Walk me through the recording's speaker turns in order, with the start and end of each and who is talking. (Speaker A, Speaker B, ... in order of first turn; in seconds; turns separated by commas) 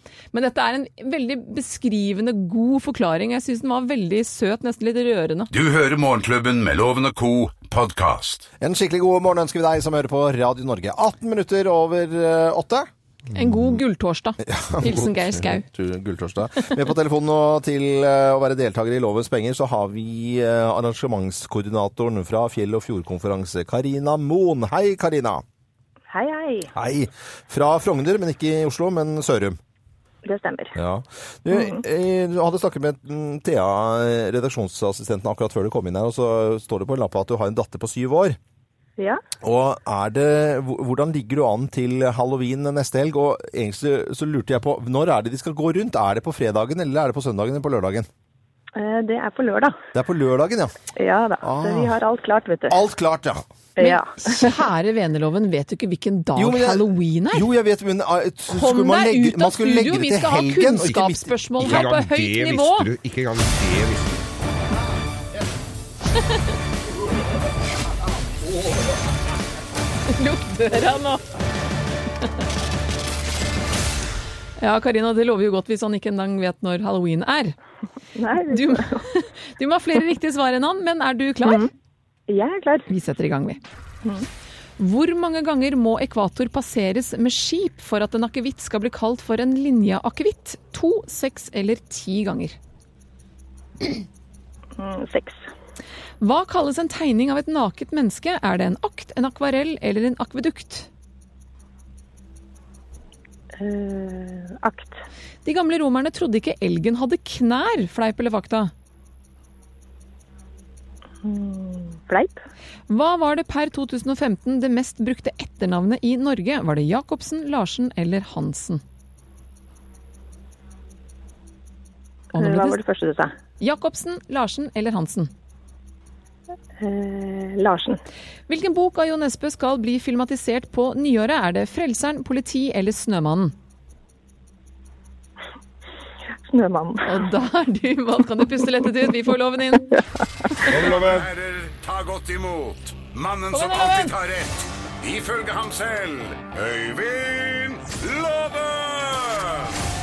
Speaker A: 0.3-5.5, Speaker B: 5.5-8.5, Speaker C: 8.6-13.7, Speaker A: 13.3-15.6, Speaker C: 14.4-25.4, Speaker D: 26.1-26.7, Speaker C: 26.7-29.6, Speaker D: 30.2-30.8, Speaker C: 30.8-38.4, Speaker D: 31.5-31.8, Speaker C: 39.4-48.1, Speaker D: 48.8-49.7, Speaker C: 49.9-50.7, Speaker D: 51.0-52.8, Speaker C: 51.4-52.0, Speaker C: 52.7-53.4, Speaker D: 53.8-54.5, Speaker A: 53.8-57.5, Speaker C: 56.4-61.9, Speaker A: 58.5-62.9, Speaker E: 61.6-64.2, Speaker A: 70.1-71.2, Speaker A: 74.6-77.5, Speaker D: 78.2-79.0, Speaker A: 78.3-81.7, Speaker D: 81.4-81.7, Speaker D: 82.3-82.9, Speaker A: 82.9-83.6, Speaker A: 84.8-92.6, Speaker D: 94.8-95.4, Speaker A: 96.2-100.9, Speaker D: 103.6-105.0, Speaker A: 105.4-108.7, Speaker D: 111.2-112.4, Speaker A: 112.9-118.8, Speaker A: 122.3-122.8, Speaker D: 122.3-123.3, Speaker A: 123.6-125.3, Speaker D: 126.8-128.0, Speaker A: 128.5-133.5, Speaker D: 136.5-137.3, Speaker A: 137.0-140.0, Speaker E: 140.7-141.3, Speaker B: 140.8-149.7, Speaker A: 143.5-144.1